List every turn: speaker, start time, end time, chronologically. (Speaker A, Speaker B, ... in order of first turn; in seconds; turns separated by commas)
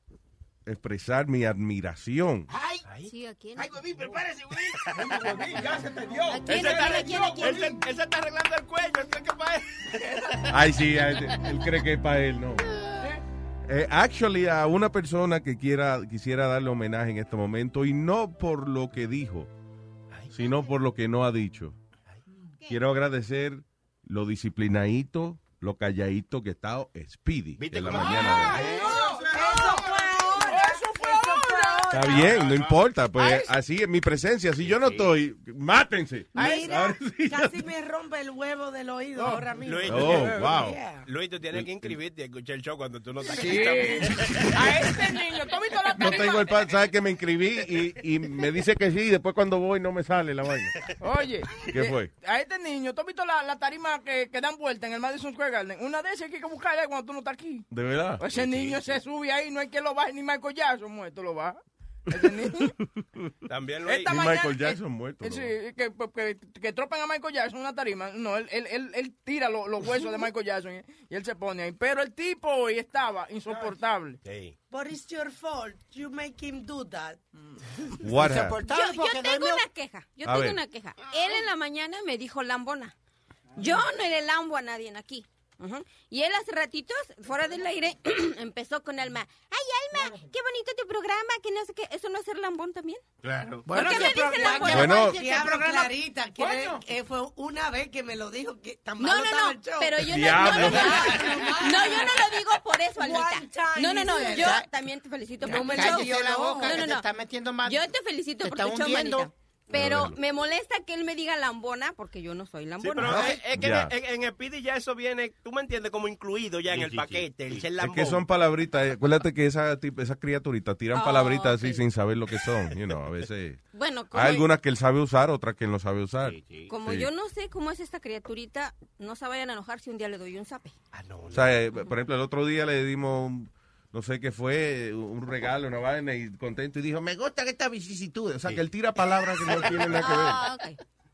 Speaker A: 0.7-2.5, Speaker B: 2.5-2.8, Speaker C: 3.0-3.8, Speaker B: 3.5-5.4, Speaker D: 5.0-7.8, Speaker C: 6.3-7.0, Speaker E: 6.4-9.7, Speaker A: 10.5-12.7, Speaker A: 13.7-19.5, Speaker A: 20.3-21.8, Speaker A: 22.7-28.6, Speaker B: 27.6-29.0, Speaker D: 28.1-30.7, Speaker F: 28.7-32.3, Speaker G: 28.8-32.2, Speaker A: 31.9-37.6, Speaker B: 32.1-32.8, Speaker B: 34.6-35.1, Speaker F: 36.3-41.0, Speaker G: 36.4-36.7, Speaker E: 39.3-40.5, Speaker A: 39.9-40.8, Speaker E: 41.0-44.7, Speaker A: 41.5-42.0, Speaker G: 43.2-46.5, Speaker A: 46.0-50.7, Speaker G: 51.0-57.7, Speaker A: 51.7-52.1, Speaker A: 57.7-58.2, Speaker G: 58.2-61.6, Speaker B: 58.3-59.0, Speaker G: 62.1-62.7, Speaker E: 63.5-64.4, Speaker G: 63.9-74.2, Speaker A: 64.0-65.5, Speaker D: 73.5-73.8, Speaker E: 74.2-74.5, Speaker F: 74.7-77.2, Speaker A: 78.0-78.6, Speaker H: 78.2-79.6, Speaker C: 78.6-82.9, Speaker A: 80.2-80.6, Speaker B: 81.0-81.4, Speaker C: 83.6-93.0, Speaker D: 90.0-90.3, Speaker B: 93.2-93.7, Speaker C: 93.7-95.0, Speaker F: 93.7-104.6, Speaker H: 93.7-95.9, Speaker A: 94.7-95.2, Speaker D: 96.4-96.8, Speaker C: 99.0-107.0, Speaker A: 100.0-101.0, Speaker H: 104.2-104.7, Speaker F: 105.4-106.8, Speaker H: 105.5-107.8, Speaker C: 107.6-113.4, Speaker H: 108.4-109.3, Speaker A: 109.7-110.2, Speaker E: 112.8-118.2, Speaker A: 113.0-113.9, Speaker B: 116.7-117.7, Speaker A: 117.8-127.1, Speaker C: 120.9-121.8, Speaker C: 123.7-124.5, Speaker B: 126.2-126.7, Speaker C: 126.7-130.8, Speaker E: 130.9-131.5, Speaker A: 131.3-140.4, Speaker C: 139.9-140.8